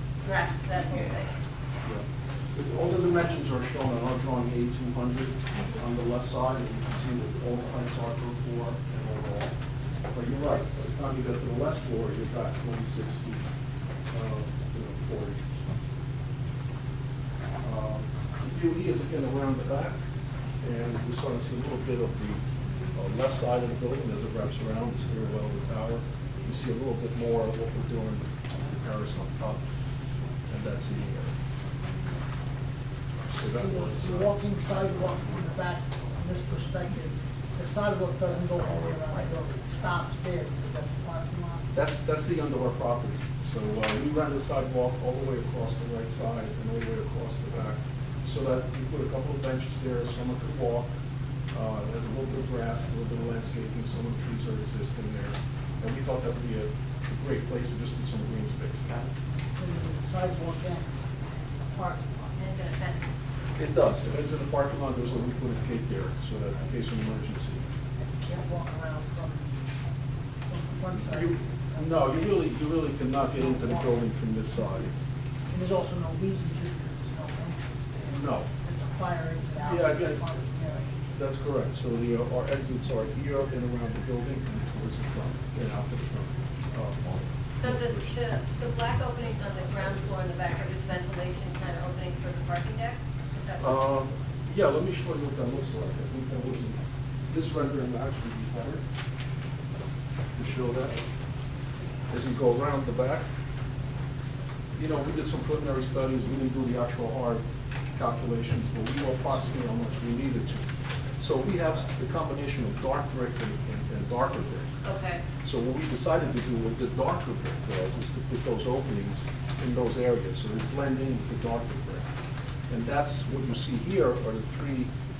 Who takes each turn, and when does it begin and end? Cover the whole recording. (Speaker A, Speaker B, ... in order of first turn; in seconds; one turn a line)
Speaker A: 0.2-1.3
Speaker B: 1.8-9.5
Speaker B: 10.1-13.4
Speaker B: 14.1-15.4
Speaker B: 17.6-20.0
Speaker B: 20.6-22.4
Speaker B: 22.9-29.6
Speaker B: 30.5-31.3
Speaker B: 33.3-34.4
Speaker C: 33.6-41.7
Speaker B: 41.7-50.9
Speaker B: 51.5-58.9
Speaker C: 59.6-62.3
Speaker A: 62.4-63.1
Speaker B: 63.6-67.7
Speaker C: 68.0-69.6
Speaker C: 70.5-72.0
Speaker B: 70.9-74.9
Speaker C: 73.3-74.0
Speaker C: 75.5-81.0
Speaker B: 78.1-78.5
Speaker B: 79.6-80.2
Speaker B: 81.1-88.2
Speaker A: 87.6-93.8
Speaker B: 93.6-98.8
Speaker B: 100.3-101.0
Speaker B: 102.1-103.3
Speaker B: 104.8-107.4
Speaker B: 108.0-114.7
Speaker A: 114.8-115.2
Speaker B: 115.4-122.1
Speaker B: 122.7-124.9